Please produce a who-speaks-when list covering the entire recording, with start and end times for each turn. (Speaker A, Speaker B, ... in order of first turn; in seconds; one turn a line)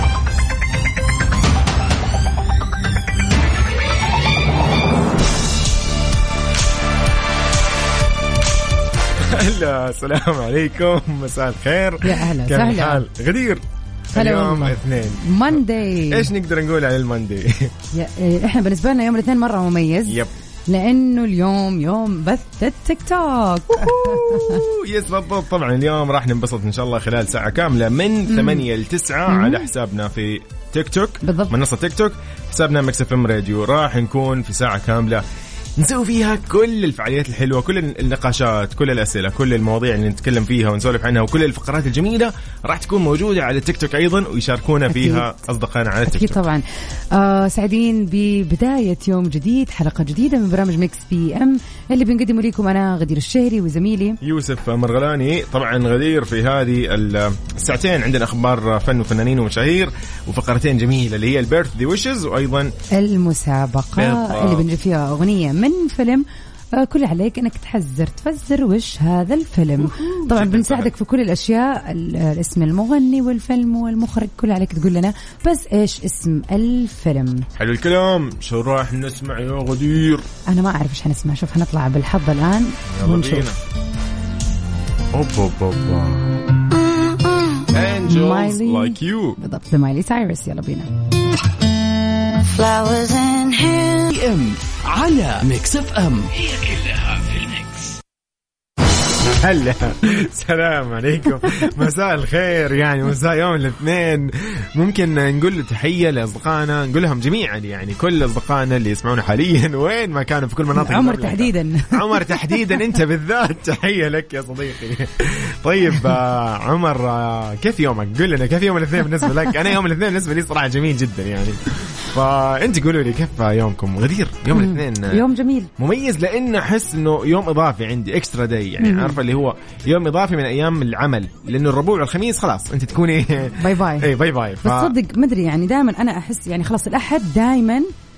Speaker A: 9.1-13.6
Speaker B: 12.0-13.0
Speaker A: 14.1-17.7
Speaker B: 14.1-16.3
Speaker B: 17.9-20.2
Speaker A: 20.0-20.3
Speaker B: 20.7-24.6
Speaker A: 23.7-35.2
Speaker B: 28.3-28.6
Speaker B: 29.3-29.7
Speaker B: 31.2-31.5
Speaker A: 35.8-46.4
Speaker B: 44.9-45.3
Speaker B: 46.0-54.2
Speaker A: 54.2-62.7
Speaker B: 62.9-77.5
Speaker A: 64.0-64.7
Speaker A: 69.8-70.9
Speaker A: 77.5-80.3
Speaker B: 80.5-83.5
Speaker A: 82.9-83.6
Speaker A: 85.1-86.2
Speaker C: 86.7-87.7
Speaker A: 87.7-89.4
Speaker B: 88.1-90.9
Speaker C: 92.3-94.1
Speaker D: 94.1-98.0
Speaker A: 99.4-125.2
Speaker B: 110.7-112.9
Speaker B: 124.5-125.7
Speaker A: 125.8-134.9
Speaker B: 128.8-129.2
Speaker B: 133.6-134.1
Speaker B: 134.6-137.9